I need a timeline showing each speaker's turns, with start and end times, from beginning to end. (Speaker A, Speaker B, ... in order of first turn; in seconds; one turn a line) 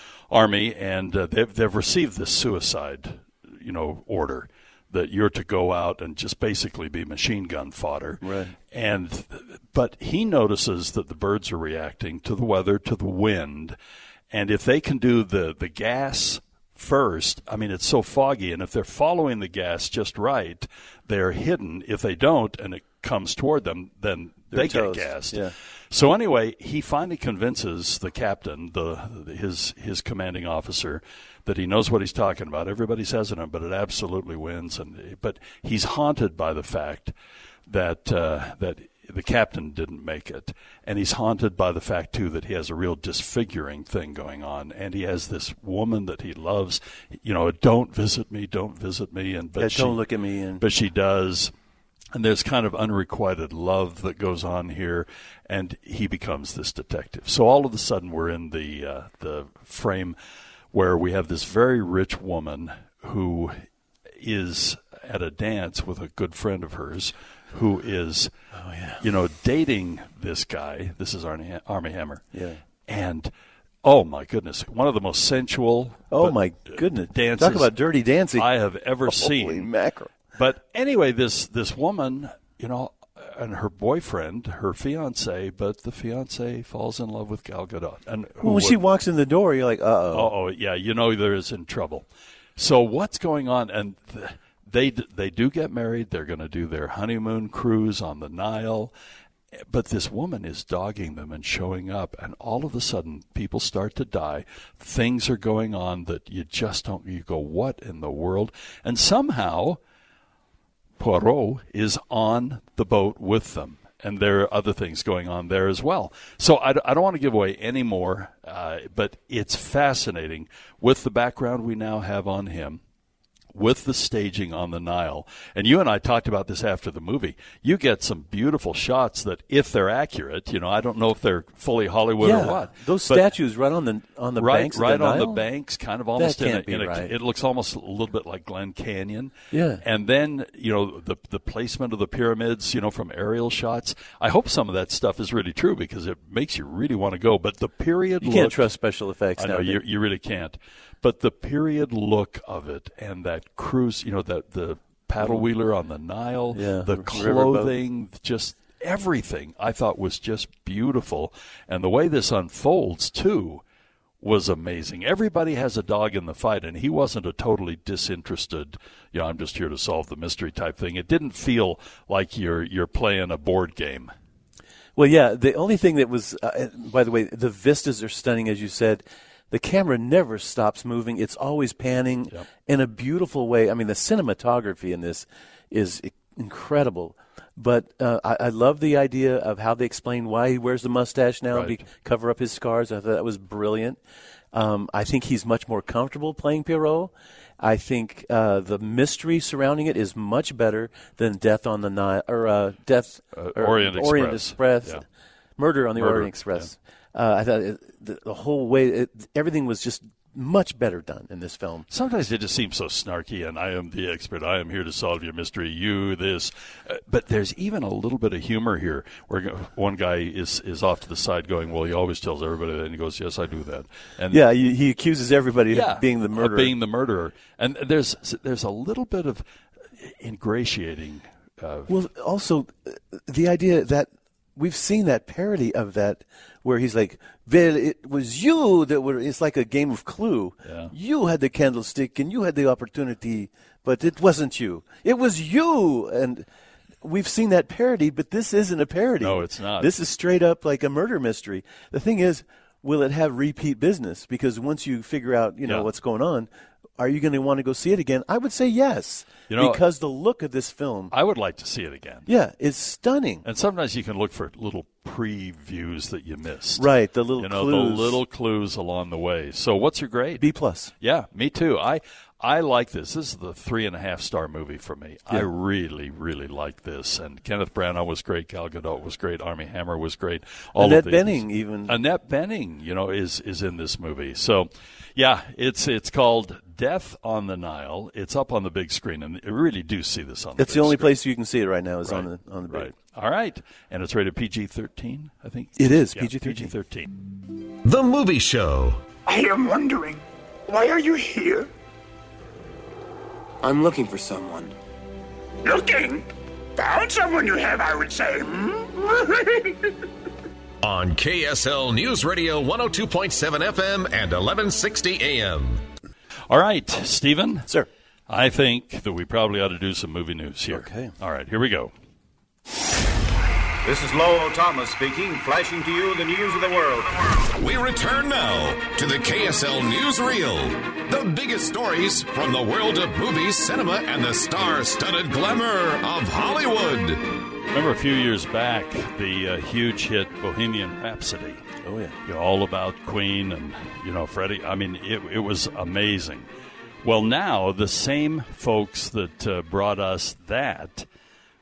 Speaker A: 0.3-13.8
Speaker B: 8.2-8.5
Speaker A: 14.3-37.1
Speaker B: 24.5-25.5
Speaker A: 37.7-50.0
Speaker B: 49.6-50.6
Speaker A: 50.6-51.5
Speaker A: 52.1-60.2
Speaker A: 60.7-63.6
Speaker A: 64.2-68.3
Speaker B: 68.5-69.0
Speaker A: 69.0-72.2
Speaker B: 72.3-72.6
Speaker A: 72.9-73.3
Speaker A: 73.8-77.7
Speaker B: 76.1-78.5
Speaker A: 78.3-79.7
Speaker B: 79.0-80.1
Speaker A: 80.3-88.8
Speaker B: 88.4-90.3
Speaker A: 90.1-92.0
Speaker A: 92.6-98.9
Speaker A: 99.7-109.8
Speaker A: 111.0-122.8
Speaker A: 123.5-133.3
Speaker B: 132.2-135.4
Speaker A: 134.4-148.6
Speaker B: 136.2-137.1
Speaker B: 139.5-139.8
Speaker B: 148.2-149.8
Speaker A: 149.4-163.6
Speaker B: 155.2-155.5
Speaker B: 156.5-157.8
Speaker A: 164.2-174.1
Speaker B: 174.9-194.0
Speaker A: 191.5-191.8
Speaker B: 194.5-205.0
Speaker A: 203.3-205.0
Speaker B: 205.6-211.8
Speaker A: 205.9-206.7
Speaker A: 211.9-224.4
Speaker B: 224.3-226.7
Speaker A: 225.7-229.4
Speaker A: 230.0-231.9
Speaker B: 231.9-246.5
Speaker A: 240.6-240.9
Speaker B: 247.0-261.1
Speaker A: 249.2-249.9
Speaker A: 259.5-259.8
Speaker A: 261.1-262.3
Speaker B: 262.3-263.4
Speaker A: 263.4-270.4
Speaker B: 266.8-268.2
Speaker B: 270.4-270.9
Speaker A: 271.0-291.2
Speaker B: 280.8-282.0
Speaker B: 290.6-292.9
Speaker A: 292.0-297.1
Speaker B: 295.8-296.7
Speaker C: 297.8-299.0
Speaker D: 299.2-301.7
Speaker E: 304.1-304.6
Speaker D: 305.6-309.9
Speaker C: 310.8-315.8
Speaker A: 316.5-317.7
Speaker A: 318.3-321.9
Speaker B: 320.7-321.1
Speaker E: 323.8-327.1
Speaker C: 327.6-337.2
Speaker A: 337.7-341.6
Speaker B: 341.8-342.1
Speaker A: 342.2-346.5
Speaker A: 347.0-351.1